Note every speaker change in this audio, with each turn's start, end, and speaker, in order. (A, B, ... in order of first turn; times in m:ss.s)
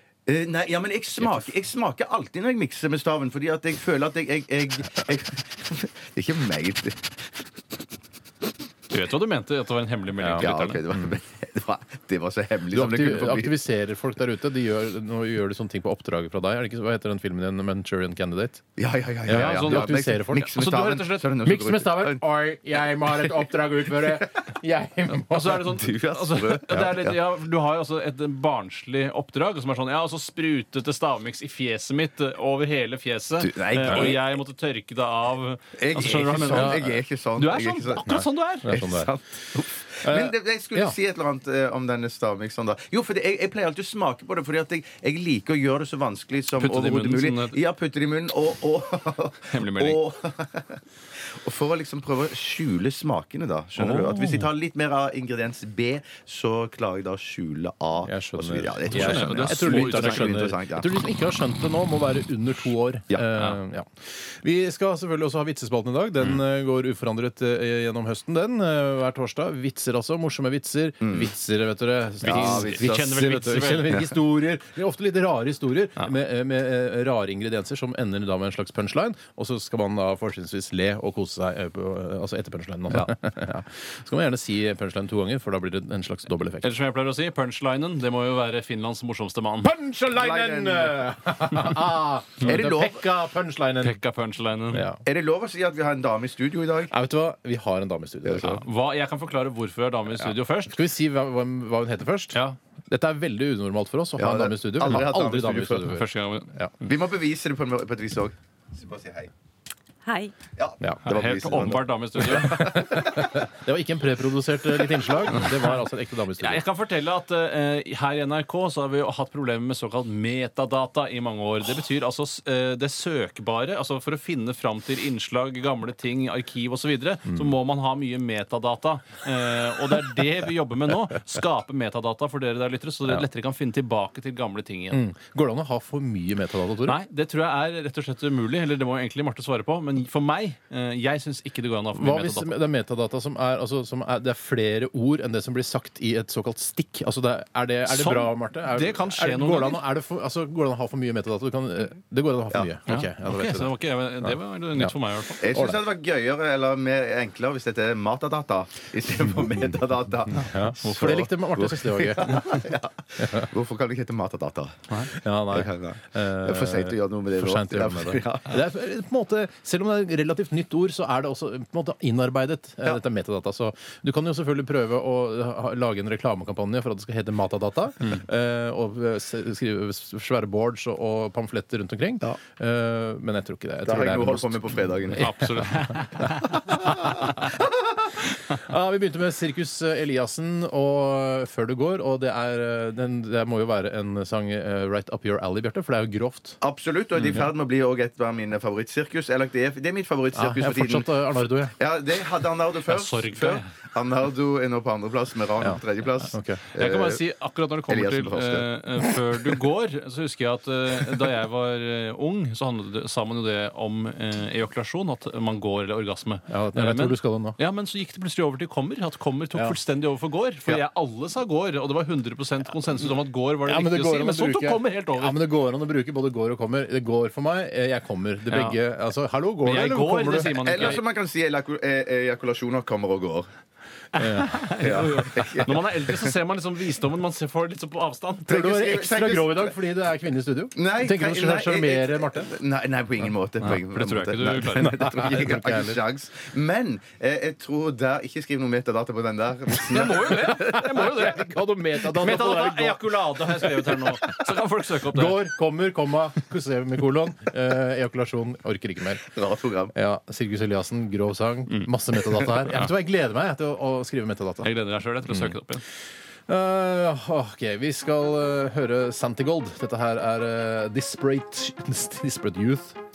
0:00.2-0:07.1 A
0:08.9-0:10.8 B
0:10.2-0:11.1 C
0:10.4-0:13.6 A
0:12.7-0:18.7 C
0:18.8-0:22.2 A
0:19.2-0:20.5 C
0:19.3-0:21.4 B
0:21.4-0:25.8 C
0:22.9-0:24.2 A
0:25.1-0:38.7 B
0:25.6-0:27.2 A
0:33.4-0:34.2 A
0:33.8-0:34.2 C
0:35.8-0:38.1 A
0:36.5-0:37.0 C
0:38.0-0:39.1 C
0:38.6-0:50.8 A
0:40.0-0:40.9 C
0:46.5-0:47.6 B
0:49.5-0:50.0 B
0:51.3-1:00.9 A
0:53.8-0:54.5 B
0:58.0-1:26.7 C
0:58.9-1:00.4 B
1:11.0-1:11.3 A
1:12.2-1:13.2 A
1:12.2-1:14.1 B
1:26.6-1:29.7 B
1:29.6-1:34.0 C
1:30.1-1:31.1 A
1:32.4-1:33.1 A
1:33.8-1:34.9 B
1:34.7-1:35.0 C
1:35.0-1:36.9 A
1:36.9-1:38.6 C
1:38.2-1:38.6 A
1:38.4-1:40.8 B
1:40.2-1:46.7 C
1:44.2-1:45.9 A
1:45.9-1:46.5 B
1:46.8-1:49.3 A
1:50.5-1:53.4 A
1:50.8-1:51.1 C
1:51.0-1:52.9 B
1:52.2-1:56.6 C
1:55.4-1:55.7 B
1:56.4-2:15.0 B
2:14.9-2:17.0 C
2:16.8-2:22.6 B
2:21.9-2:33.7 C
2:27.8-2:29.8 B
2:32.9-2:35.6 B
2:34.2-2:34.9 C
2:35.4-2:48.6 A
2:35.5-2:35.8 C
2:40.4-2:42.5 C
2:43.2-2:43.4 C
2:45.1-3:07.6 C
3:03.8-3:05.3 A
3:05.2-3:07.3 B
3:08.1-3:16.6 C
3:16.6-3:21.1 A
3:20.3-3:21.8 C
3:21.6-3:27.2 A
3:22.8-3:23.7 B
3:25.6-3:26.6 C
3:26.7-3:45.4 B
3:27.9-3:28.7 A
3:36.5-3:37.6 C
3:43.6-3:50.5 C
3:48.4-3:48.8 B
3:49.6-3:51.0 B
3:50.4-3:53.5 A
3:54.1-3:58.5 B
3:54.2-3:54.6 C
3:54.8-3:56.3 A
3:58.5-3:59.7 A
3:58.5-4:02.5 C
4:00.7-4:10.8 A
4:03.6-4:04.9 B
4:04.8-4:06.0 C
4:09.9-4:11.5 B
4:09.9-4:14.5 C
4:12.0-4:15.4 B
4:15.1-4:19.3 C
4:19.2-4:19.9 A
4:19.9-4:24.7 C
4:24.6-4:25.8 B
4:25.3-4:25.5 C
4:26.5-4:33.0 C